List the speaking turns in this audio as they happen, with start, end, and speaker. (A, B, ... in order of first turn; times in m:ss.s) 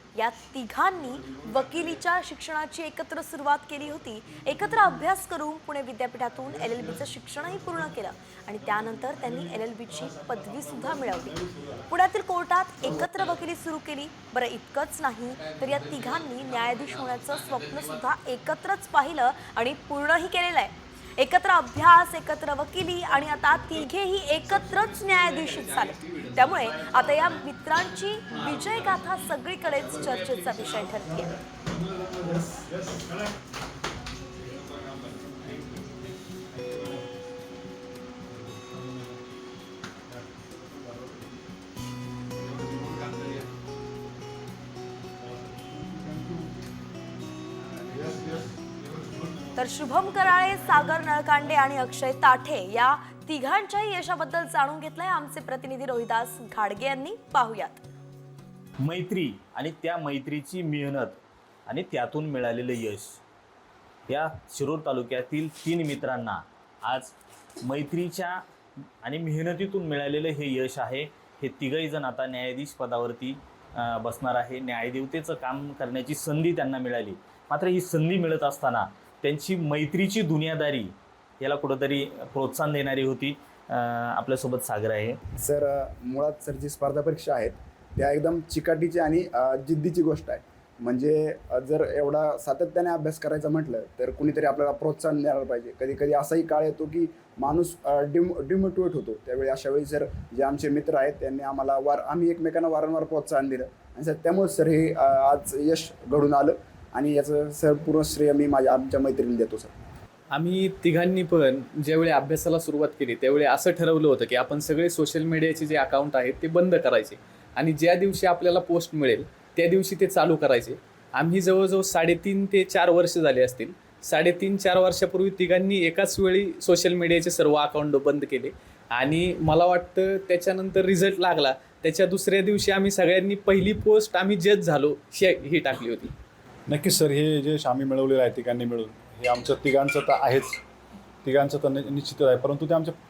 0:00.1-0:31.4 A
0:01.1-0:02.0 B
0:04.4-0:04.8 B
0:06.3-0:08.0 B
0:08.6-0:11.9 B
0:15.4-0:18.0 C
0:24.5-0:27.4 C
0:28.3-0:28.6 C
0:29.7-0:30.2 B
0:30.9-0:33.3 B
0:34.4-0:37.1 B
0:38.3-0:39.2 B
0:40.1-0:41.2 B
0:42.4-0:43.5 B
0:45.2-0:46.4 B
0:47.8-0:51.0 B
0:49.6-0:57.8 A
0:58.8-1:03.2 D
1:04.1-1:08.4 D
1:09.0-1:25.2 D
1:25.4-1:49.7 E
1:50.3-2:16.1 C
2:16.7-2:20.6 B
2:21.2-2:22.9 B